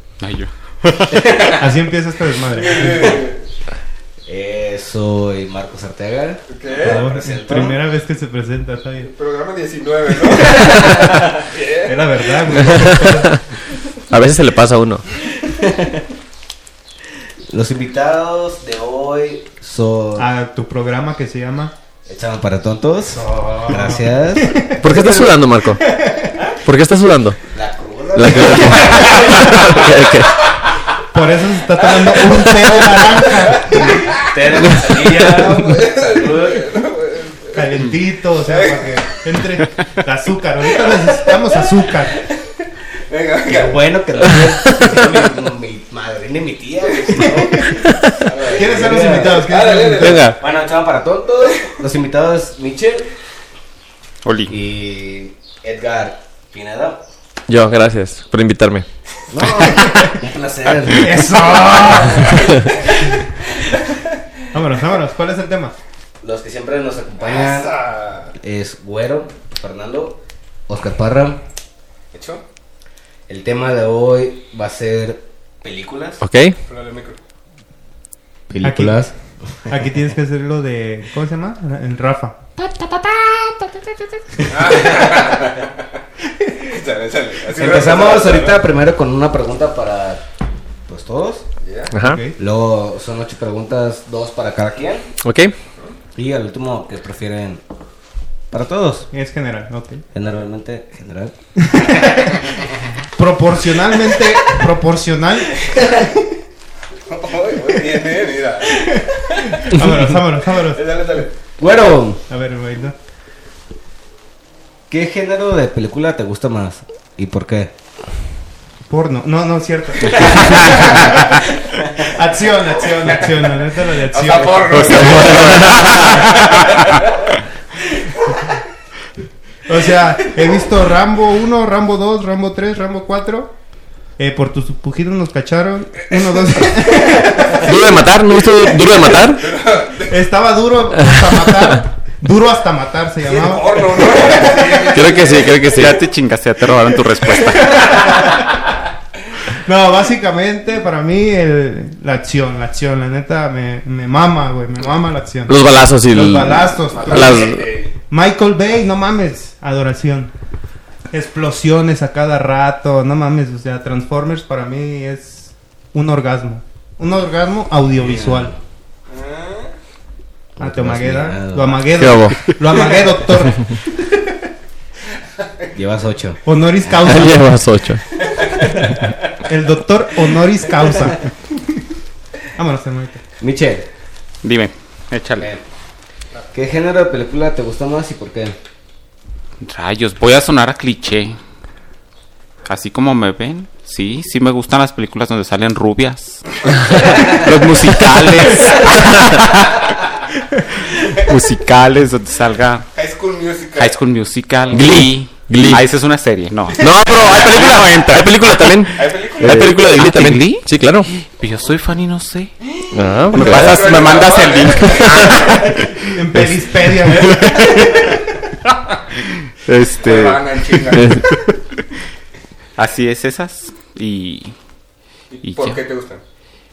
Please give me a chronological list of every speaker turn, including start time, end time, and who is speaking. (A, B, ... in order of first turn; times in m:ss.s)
0:00.2-0:01.4 A
0:01.1-0:01.7 B
0:01.5-0:03.3 C
0:02.6-0:03.4 D
0:04.2-0:07.8 B
0:06.5-0:07.2 D
0:06.8-0:09.1 C
0:09.0-0:12.9 D
0:10.6-0:11.3 B
0:11.8-0:13.4 C
0:12.6-0:13.4 E
0:14.0-0:15.0 E
0:15.4-0:16.1 B
0:17.5-0:20.3 B
0:20.2-0:21.7 C
0:22.0-0:24.6 B
0:23.1-0:26.5 C
0:24.8-0:25.8 E
0:26.6-0:27.4 E
0:27.5-0:29.9 B
0:28.1-0:30.4 E
0:31.1-0:34.2 C
0:33.3-0:34.3 D
0:33.5-0:36.7 B
0:34.6-0:35.5 E
0:35.2-0:39.0 D
0:37.5-0:42.2 C
0:40.7-0:41.5 D
0:43.1-0:44.4 D
0:43.5-0:53.1 B
0:48.3-0:50.3 D
0:48.5-0:50.3 C
0:49.9-0:50.4 E
0:54.2-0:54.5 A
0:54.5-0:57.0 B
0:57.5-0:58.8 E
0:59.3-1:03.8 B
0:59.9-1:00.1 C
1:00.9-1:02.7 C
1:04.5-1:05.7 C
1:06.2-1:07.8 B
1:07.2-1:08.3 D
1:08.3-1:11.4 B
1:12.1-1:12.4 D
1:13.3-1:16.2 B
1:16.2-1:16.6 E
1:16.7-1:17.2 D
1:18.5-1:19.1 B
1:18.6-1:19.0 C
1:19.7-1:22.5 C
1:22.7-1:23.7 B
1:24.4-1:25.8 D
1:24.5-1:25.6 B
1:26.5-1:28.7 D
1:27.4-1:30.2 B
1:30.9-1:31.4 B
1:31.6-1:31.9 D
1:31.9-1:32.2 E
1:31.9-1:32.4 C
1:32.4-1:35.1 B
1:35.2-1:35.5 E
1:36.2-1:37.6 B
1:38.5-1:39.1 B
1:39.1-1:40.0 C
1:40.1-1:42.7 B
1:41.7-1:42.5 C
1:43.1-1:46.0 C
1:47.1-1:51.3 D
1:49.4-1:50.8 C
1:51.6-1:52.2 B
1:52.3-1:53.0 C
1:54.9-1:57.7 B
1:58.9-2:06.6 C
2:00.2-2:01.2 B
2:04.1-2:07.1 D
2:04.7-2:05.9 A
2:04.7-2:06.3 E
2:09.6-2:13.5 C
2:14.2-2:17.8 C
2:16.1-2:17.2 D
2:17.5-2:19.4 E
2:18.9-2:20.3 D
2:20.1-2:25.0 C
2:21.0-2:21.8 E
2:23.2-2:25.6 D
2:24.9-2:26.0 E
2:25.6-2:28.0 A
2:27.6-2:28.6 C
2:29.5-2:37.5 C
2:35.5-2:37.7 E
2:36.9-2:37.9 D
2:38.1-2:40.3 C
2:41.1-2:48.5 C
2:47.9-2:48.6 B
2:49.1-2:49.7 D
2:50.6-2:51.9 B
2:50.6-2:53.7 C
2:52.0-2:52.5 E
2:55.7-2:56.4 B
2:56.4-2:57.5 C
2:57.0-2:58.0 E
2:58.3-2:58.6 D
2:58.7-3:01.3 C
3:02.5-3:03.2 C
3:03.4-3:03.8 B
3:04.4-3:05.5 A
3:05.4-3:05.6 B
3:06.5-3:08.6 B
3:09.6-3:11.4 A
3:12.6-3:19.9 A
3:16.8-3:17.3 E
3:18.0-3:19.4 E
3:20.9-3:22.9 A
3:22.9-3:24.0 D
3:23.8-3:32.5 A
3:24.7-3:25.8 E
3:26.8-3:31.1 E
3:29.0-3:29.7 D
3:32.6-3:35.8 D
3:32.9-3:35.6 E
3:33.3-3:38.2 A
3:36.1-3:38.2 C
3:39.5-3:41.8 A
3:40.0-3:41.2 D
3:40.9-3:41.3 E
3:42.8-3:44.5 A
3:45.3-3:46.2 D
3:45.4-3:45.8 A